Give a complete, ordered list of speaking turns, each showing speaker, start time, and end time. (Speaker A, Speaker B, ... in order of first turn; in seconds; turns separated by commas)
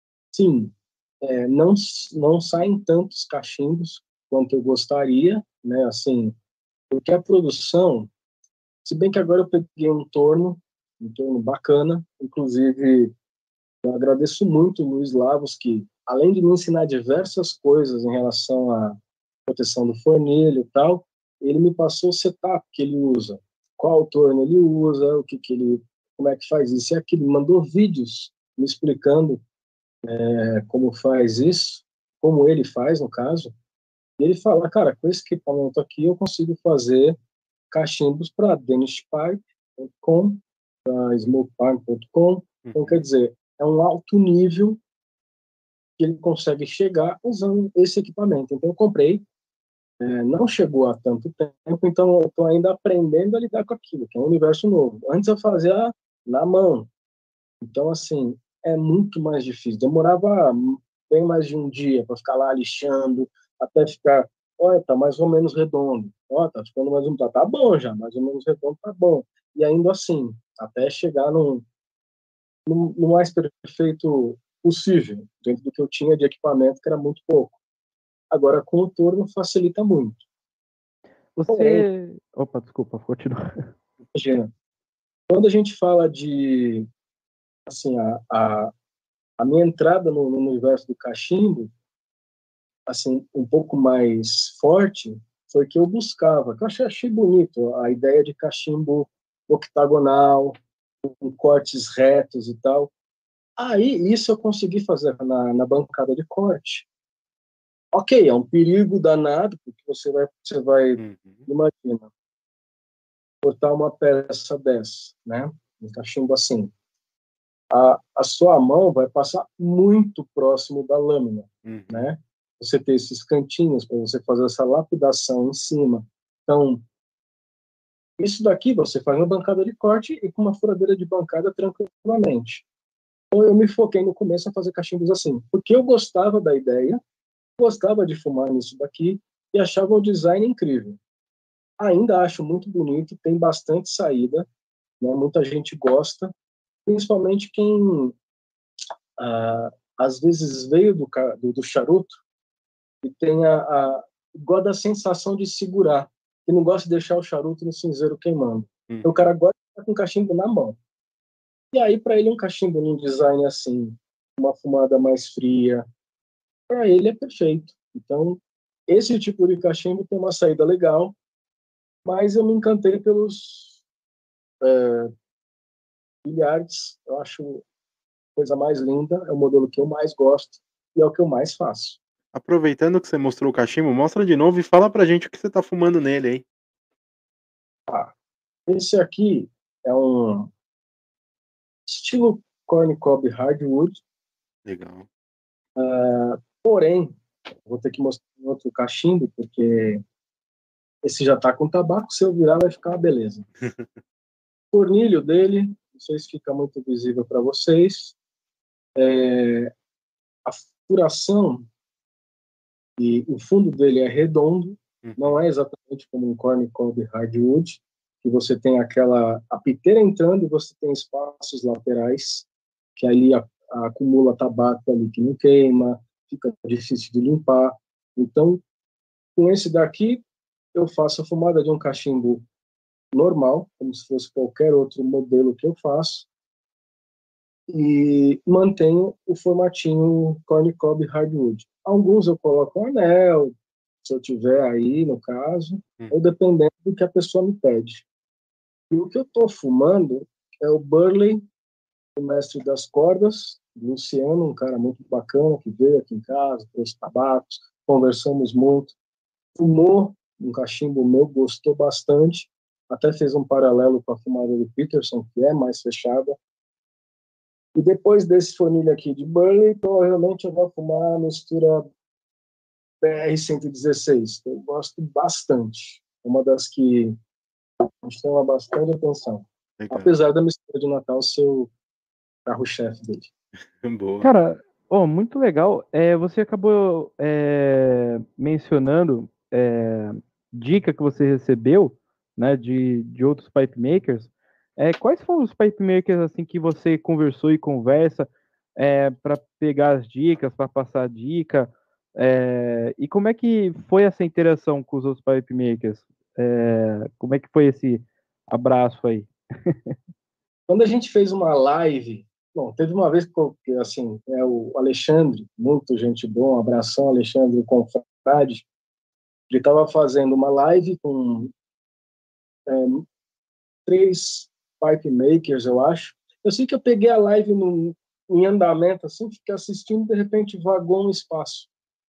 Speaker A: 0.3-6.3, Speaker A: 6.9-8.1, Speaker A: 8.8-13.1, Speaker A: 13.8-29.4, Speaker A: 30.1-33.5, Speaker A: 34.2-37.2, Speaker A: 37.7-44.8, Speaker B: 42.6-43.0, Speaker A: 46.0-49.2, Speaker A: 50.0-56.9, Speaker A: 57.6-71.7, Speaker A: 72.7-77.6, Speaker A: 78.3-80.2, Speaker C: 81.4-83.7, Speaker A: 81.5-81.9, Speaker A: 84.2-84.5, Speaker A: 85.3-86.9, Speaker A: 87.7-88.7, Speaker A: 89.4-91.7, Speaker A: 92.9-102.9, Speaker A: 103.6-106.9, Speaker A: 107.9-112.1, Speaker B: 111.0-111.5, Speaker A: 113.4-116.7, Speaker A: 117.7-126.8, Speaker B: 121.7-122.1, Speaker A: 128.2-132.7, Speaker A: 133.3-137.0, Speaker A: 137.6-141.0, Speaker A: 141.8-144.5, Speaker A: 145.0-146.3, Speaker A: 146.9-148.2, Speaker A: 149.2-152.2, Speaker A: 153.0-160.8, Speaker A: 161.7-165.9, Speaker A: 166.7-171.2, Speaker A: 172.1-173.8, Speaker A: 174.6-175.1, Speaker A: 176.2-177.6, Speaker A: 178.4-182.0, Speaker B: 182.3-186.4, Speaker A: 188.7-190.5, Speaker A: 191.9-194.0, Speaker B: 194.7-195.1, Speaker A: 195.8-200.0, Speaker A: 201.0-203.5, Speaker A: 204.7-208.2, Speaker A: 209.0-209.7, Speaker A: 210.4-211.7, Speaker A: 213.0-228.6, Speaker B: 215.0-215.4, Speaker A: 229.4-232.4, Speaker A: 233.1-236.3, Speaker A: 237.7-248.0, Speaker A: 248.9-251.4, Speaker A: 252.2-258.9, Speaker A: 259.6-266.4, Speaker A: 267.8-271.9, Speaker A: 273.0-277.2, Speaker A: 278.0-281.7, Speaker B: 279.8-280.1, Speaker A: 282.5-283.3, Speaker B: 283.8-284.3, Speaker C: 284.2-309.9, Speaker A: 310.7-318.7, Speaker A: 319.5-321.5, Speaker A: 322.7-323.1, Speaker A: 323.9-331.7